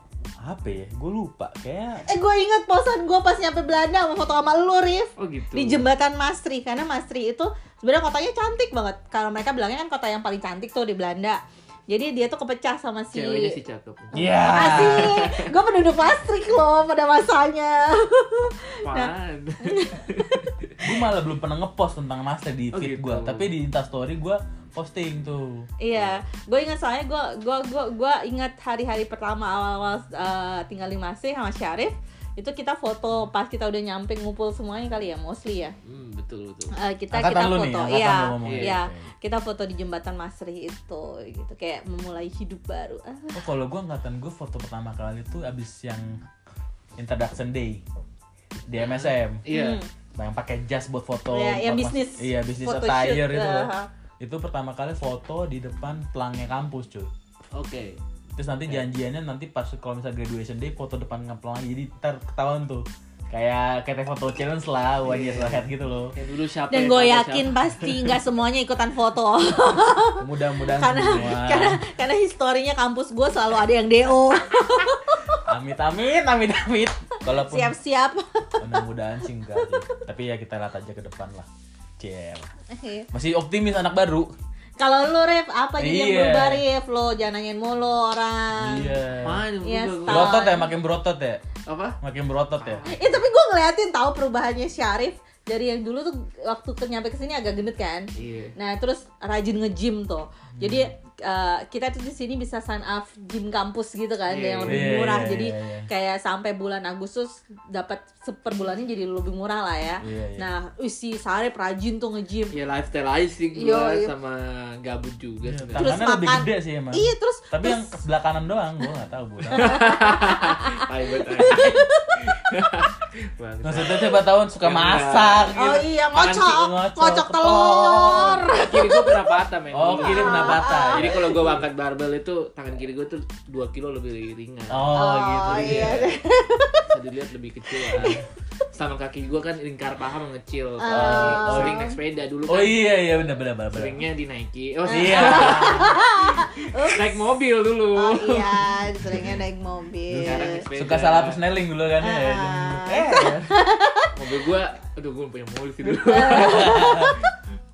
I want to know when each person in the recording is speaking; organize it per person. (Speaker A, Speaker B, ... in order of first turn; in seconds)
Speaker A: 0.4-2.0, 14.1-15.3, 20.8-25.7, 37.1-39.1, 43.3-46.2, 47.0-47.8, 48.7-49.4, 50.1-57.1, 58.4-66.1, 70.2-71.8, 75.4-77.8, 78.6-81.5, 82.0-82.5, 83.1-84.3, 85.8-86.6, 88.6-89.4, 90.1-91.4, 92.0-92.8, 100.6-100.9, 104.7-105.9, 110.0-110.5, 115.4-120.0, 121.4-121.8, 123.6-128.5, 129.7-131.4, 134.7-136.1, 140.9-141.8, 142.5-144.0, 144.9-146.0, 149.0-149.4, 150.2-153.5, 156.3-157.2
Speaker B: 2.0-13.6, 14.2-19.1, 19.6-20.8, 25.8-35.7, 36.7-43.4, 49.5-49.9, 51.3-53.9, 66.7-75.4, 77.3-78.8, 79.5-80.0, 82.7-83.1, 84.8-89.0, 89.6-90.7, 92.8-112.5, 113.5-114.1, 115.8-117.9, 119.5-122.9, 125.5-129.3, 130.0-131.6, 134.9-136.9, 137.7-138.2, 140.8-141.9, 144.9-147.2, 147.9-150.6, 152.0-154.2, 155.9-157.3
Speaker C: 5.2-5.8, 13.1-15.4, 18.8-20.7, 22.7-23.5, 35.9-36.7, 38.4-38.7, 48.8-49.8, 57.5-58.0, 65.0-68.0, 89.2-90.4, 91.7-92.0, 92.6-93.2, 98.2-98.5, 104.3-104.8, 112.5-115.9, 119.5-125.5, 128.1-134.9, 135.5-136.0, 136.9-142.9, 143.7-148.6, 150.2-151.4, 154.1-157.0